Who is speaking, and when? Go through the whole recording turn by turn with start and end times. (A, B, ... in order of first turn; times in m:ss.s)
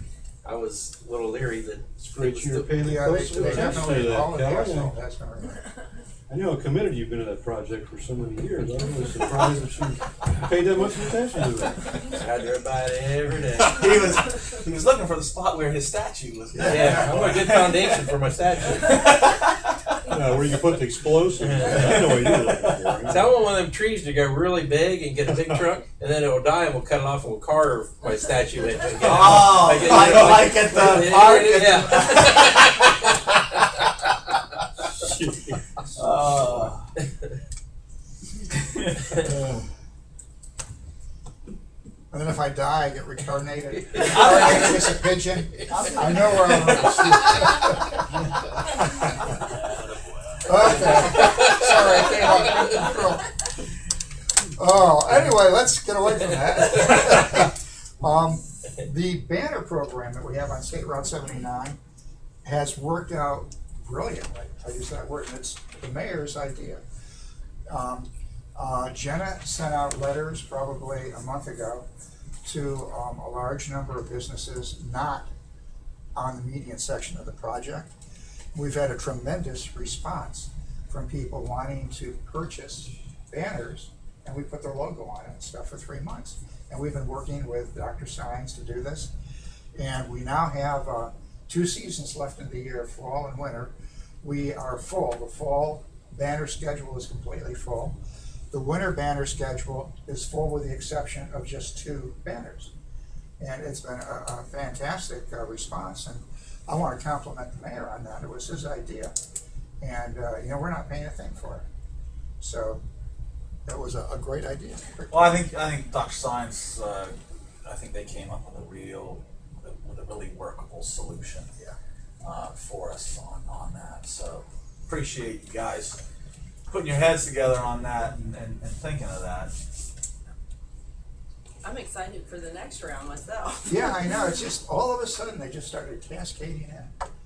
0:00.4-0:03.0 A
0:02.0-0:05.0 B
0:02.8-0:05.7 C
0:06.3-0:12.0 B
0:12.1-0:13.8 A
0:13.5-0:18.1 D
0:16.5-0:17.5 C
0:16.6-0:19.0 A
0:18.8-0:19.8 D
0:20.1-0:23.4 B
0:21.4-0:22.4 A
0:22.3-0:22.8 D
0:23.1-0:33.0 A
0:29.0-0:32.8 D
0:35.1-0:35.5 B
0:36.0-0:36.8 D
0:38.5-0:39.0 D
0:39.2-0:39.6 B
0:42.1-0:48.0 C
0:44.0-0:44.6 A
0:44.1-0:44.5 D
0:45.7-0:47.0 D
0:48.9-0:49.3 C
0:50.4-0:53.3 C
0:50.8-0:51.8 A
0:54.6-1:01.8 C
1:02.4-1:06.8 C
1:07.7-1:11.9 C
1:12.4-1:15.3 C
1:16.2-1:17.9 C
1:18.5-1:29.1 C
1:29.8-1:38.0 C
1:38.5-1:42.7 C
1:43.4-1:49.1 C
1:49.8-1:51.6 C
1:52.4-1:52.8 C
1:53.7-1:55.4 C
1:55.1-2:01.5 D
2:02.2-2:06.0 D
2:06.7-2:09.6 D
2:11.6-2:14.0 E
2:13.7-2:16.9 C